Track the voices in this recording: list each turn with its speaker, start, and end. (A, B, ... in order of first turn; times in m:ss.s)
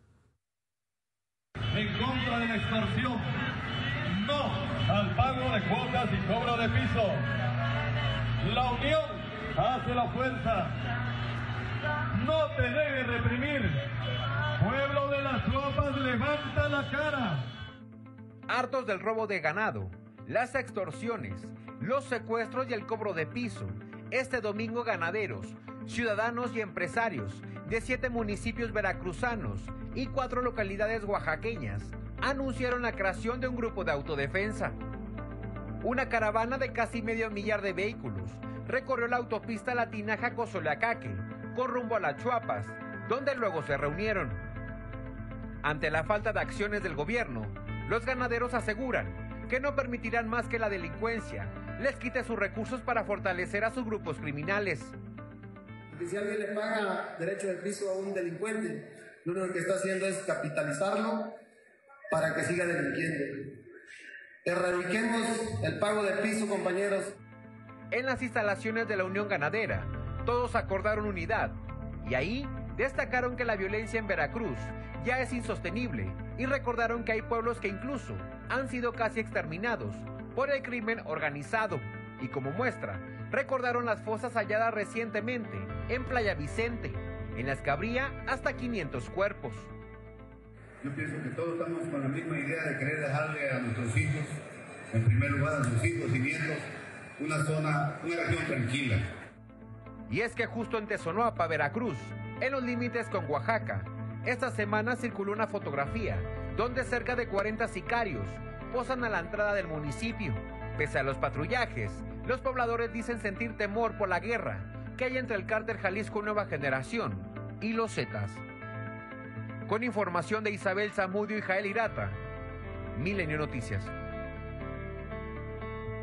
0:01.7-0:03.3 A
0:04.1-0:07.2 A
0:08.4-0:10.7 A
0:12.1-0:13.8 A
0:14.6-0:17.4 A
0:18.5-0:34.8 B
0:35.8-0:44.4 B
0:45.6-0:55.0 B
0:55.9-1:01.4 C
1:02.1-1:03.6 C
1:04.4-1:07.1 C
1:07.9-1:29.7 B
1:30.8-1:34.4 D
1:34.9-1:36.6 D
1:37.2-1:39.0 D
1:40.1-1:58.4 B
1:59.7-2:02.2 B
2:03.0-2:03.9 B